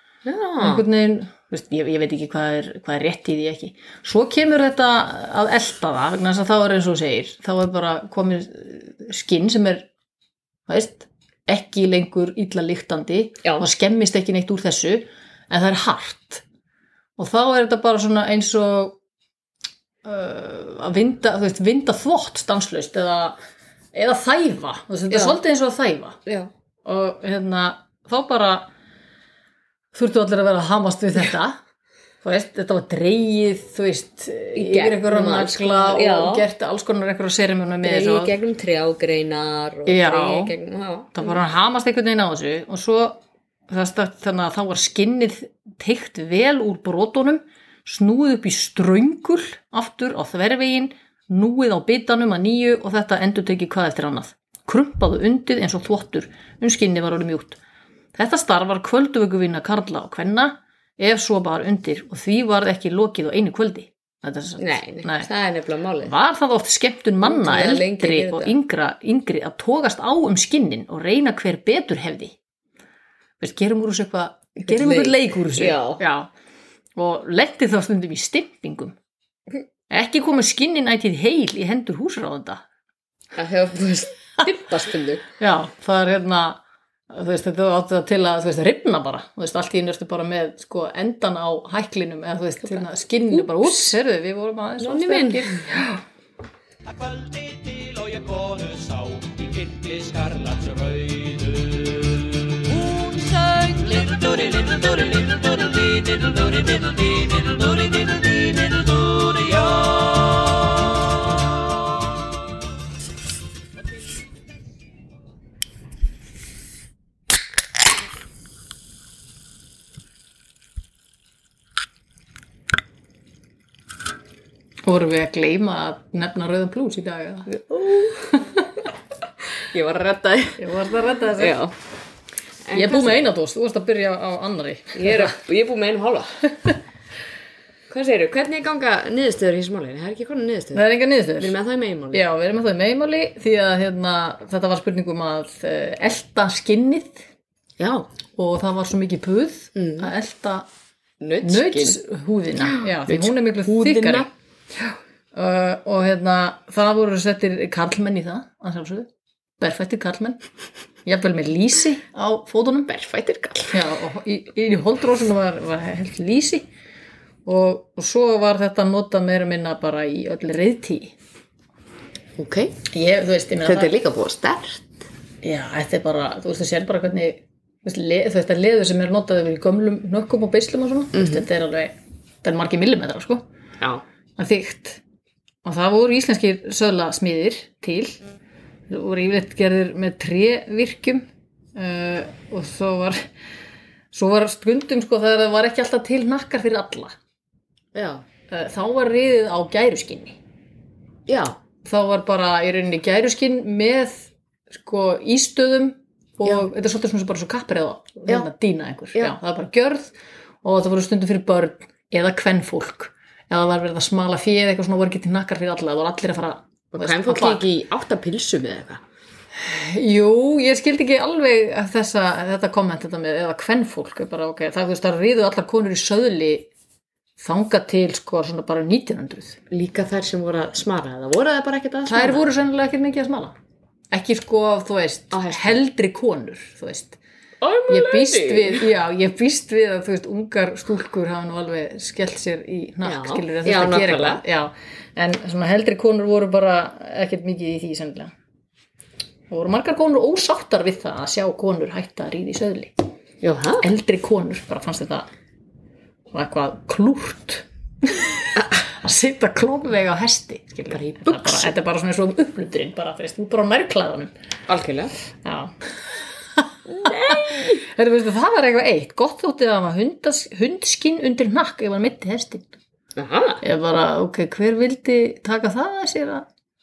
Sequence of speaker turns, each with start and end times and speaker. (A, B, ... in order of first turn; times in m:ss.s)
0:00.2-0:00.8 A
0:00.6-0:09.9 B
0:10.7-0:16.4 B
0:17.2-0:19.0 B
0:20.0-0:23.4 B
0:23.9-0:26.2 B
0:25.1-0:25.4 A
0:26.8-0:28.7 B
0:29.9-0:31.6 B
0:32.2-0:38.3 B
0:34.6-0:36.5 A
0:37.8-0:41.3 A
0:39.9-0:40.6 B
0:41.1-0:57.6 B
0:58.2-1:05.3 B
1:04.6-1:06.1 A
1:06.0-1:12.4 B
1:07.2-1:08.6 A
1:13.4-1:16.3 B
1:14.6-1:16.0 A
1:17.0-1:19.0 B
1:19.9-1:22.6 B
1:23.4-1:25.3 A
1:25.4-1:36.0 B
1:32.6-1:34.0 A
1:34.8-1:35.8 A
1:36.9-1:51.1 C
2:04.8-2:07.5 B
2:07.5-2:08.6 A
2:09.6-2:11.8 A
2:10.6-2:11.6 B
2:12.6-2:13.2 A
2:12.7-2:15.4 B
2:14.9-2:16.5 A
2:17.9-2:20.9 A
2:20.7-2:21.6 B
2:21.4-2:22.2 A
2:22.1-2:27.3 B
2:27.8-2:28.1 A
2:28.4-2:30.7 B
2:29.8-2:30.1 A
2:31.2-2:32.0 A
2:31.4-2:34.3 B
2:32.7-2:34.3 A
2:35.3-2:40.4 B
2:41.0-2:42.9 B
2:42.9-2:43.8 A
2:43.7-2:46.7 B
2:47.4-2:51.1 B
2:52.4-2:52.8 A
2:52.9-2:53.9 B
2:53.6-2:55.0 A
2:55.4-3:03.4 B
3:01.1-3:01.5 A
3:04.4-3:05.0 B
3:05.6-3:08.2 B
3:08.9-3:13.3 B
3:14.1-3:17.1 B
3:18.0-3:18.2 A
3:18.5-3:20.4 B
3:21.3-3:21.6 A
3:21.8-3:37.7 B
3:36.9-3:39.0 A
3:39.6-3:46.7 B
3:47.4-3:49.6 B
3:49.7-3:52.5 A
3:52.1-3:53.6 B
3:54.1-3:57.2 B
3:55.3-3:55.8 A
3:57.6-3:58.9 A
3:57.9-4:08.3 B
4:03.0-4:04.4 A
4:09.5-4:12.9 B
4:13.4-4:13.9 A
4:13.8-4:15.3 B
4:16.3-4:24.3 B
4:20.9-4:21.7 A
4:24.7-4:25.2 A
4:25.4-4:25.8 B
4:26.6-4:32.7 B
4:26.9-4:27.8 A
4:33.2-4:33.6 A
4:33.6-4:36.5 B